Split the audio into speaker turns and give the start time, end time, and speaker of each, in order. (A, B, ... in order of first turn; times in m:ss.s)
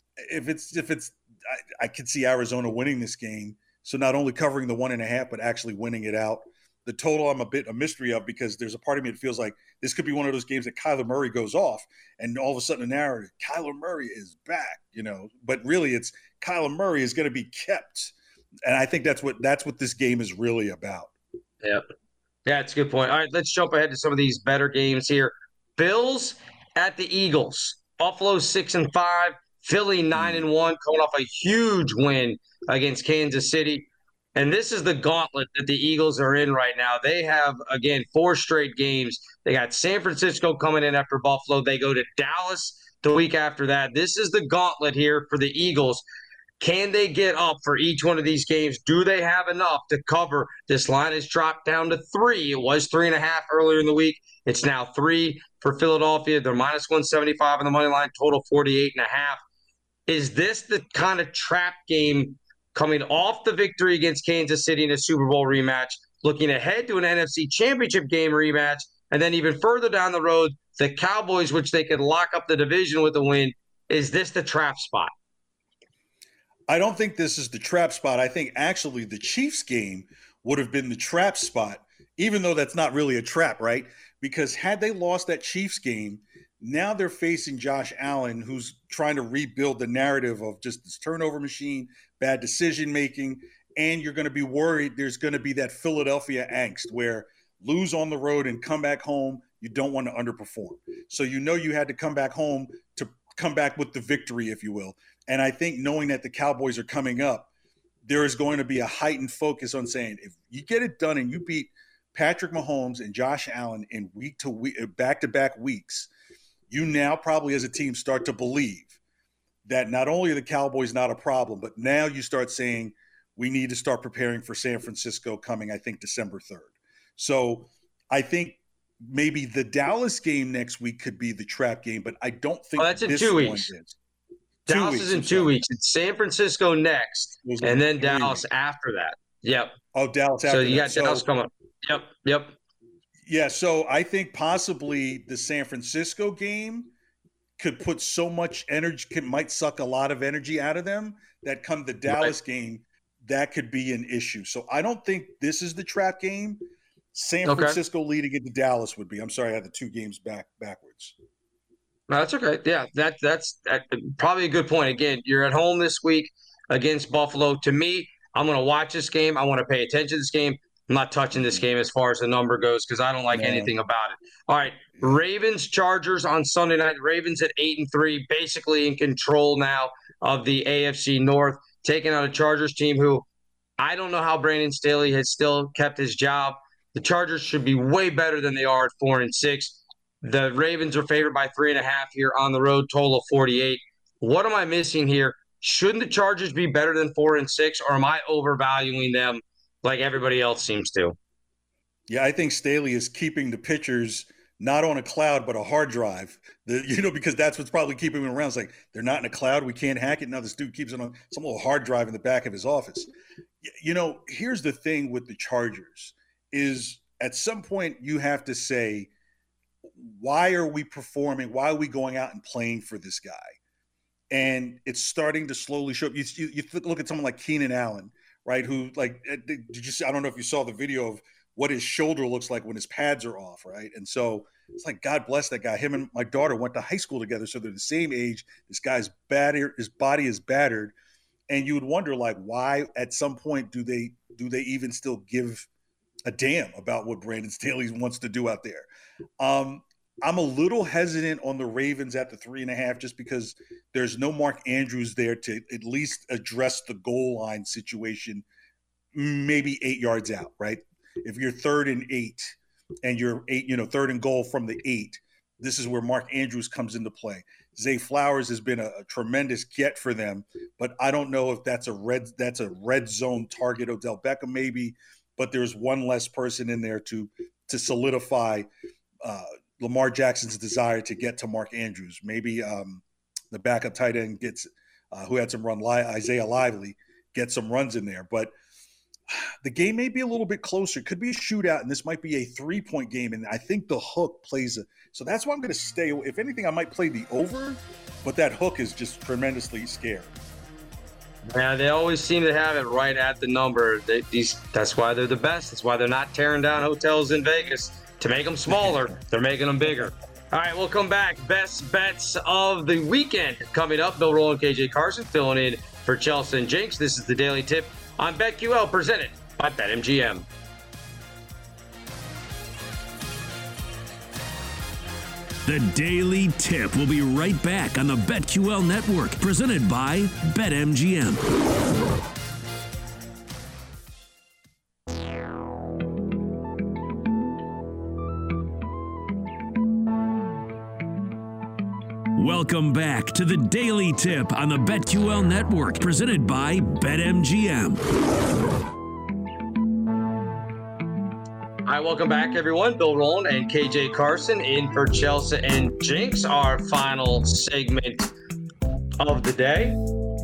0:00.2-0:21.1 A
0:22.4-0:46.0 B
0:30.1-0:30.4 A
0:46.6-0:59.4 B
1:00.1-1:15.1 B
1:16.7-1:47.5 A
1:48.0-1:56.1 A
1:56.7-1:59.0 A
1:59.6-2:14.0 A
2:12.8-2:13.7 B
2:14.7-2:15.5 A
2:14.7-2:19.7 B
2:17.4-2:18.4 A
2:19.9-2:21.2 A
2:20.4-2:22.5 B
2:23.2-2:26.9 A
2:27.6-2:36.6 A
2:32.1-2:32.3 B
2:37.1-2:41.2 A
2:37.4-2:37.8 B
2:42.1-3:03.2 B
2:51.4-2:51.6 A
2:53.3-2:53.7 A
3:03.8-3:21.2 B
3:22.1-3:33.1 A
3:33.6-3:39.1 A
3:39.9-3:43.6 A
3:44.3-4:00.9 A
4:01.5-4:05.7 A
4:06.2-4:08.9 A
4:09.4-4:18.4 A
4:19.1-4:38.7 A
4:39.2-4:48.5 A
4:49.3-5:00.3 A
5:01.5-5:20.4 B
5:25.6-5:31.4 C
5:42.3-5:48.0 C
5:51.8-5:58.3 B
5:59.2-6:00.0 B